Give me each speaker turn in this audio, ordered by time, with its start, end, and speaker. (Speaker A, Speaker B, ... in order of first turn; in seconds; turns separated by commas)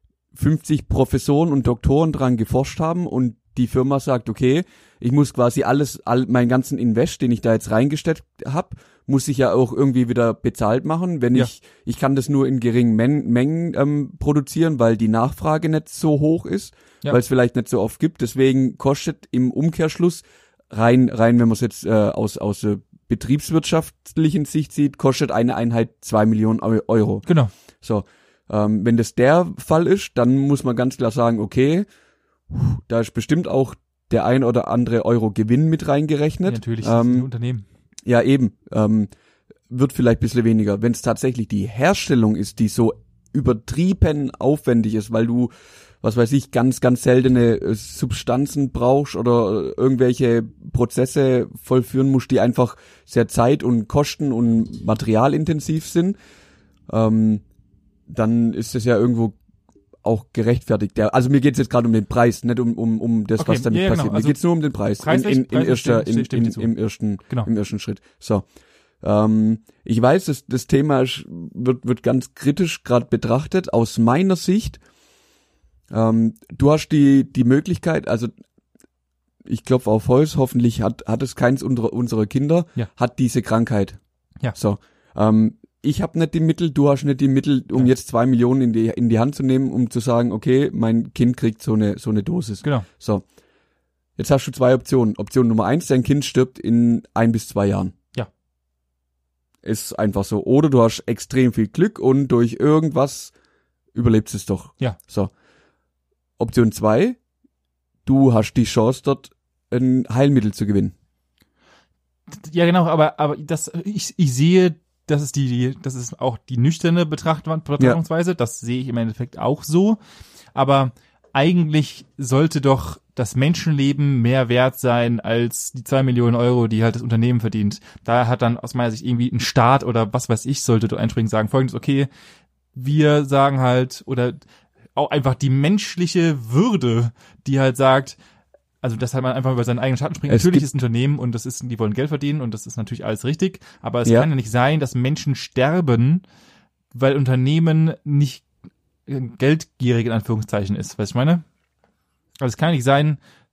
Speaker A: 0.3-27.2, Speaker B: 27.2-27.5, Speaker A: 27.8-31.9, Speaker A: 32.5-37.3, Speaker B: 36.5-37.6, Speaker A: 38.0-39.1, Speaker A: 39.7-45.5, Speaker A: 46.0-56.1, Speaker A: 56.9-57.4, Speaker A: 58.1-59.4, Speaker A: 60.0-68.4, Speaker B: 63.4-64.4, Speaker B: 65.0-66.7, Speaker A: 69.0-74.8, Speaker A: 75.9-78.3, Speaker A: 79.5-84.0, Speaker A: 84.5-93.2, Speaker A: 94.2-97.9, Speaker A: 99.6-103.3, Speaker A: 103.9-105.3, Speaker A: 106.4-107.2, Speaker A: 108.0-110.9, Speaker B: 112.3-120.0, Speaker B: 120.5-132.1, Speaker B: 132.7-134.4, Speaker B: 134.9-138.2, Speaker B: 138.8-146.2, Speaker A: 140.3-140.7, Speaker B: 146.9-148.4, Speaker B: 149.1-151.4, Speaker B: 152.4-153.2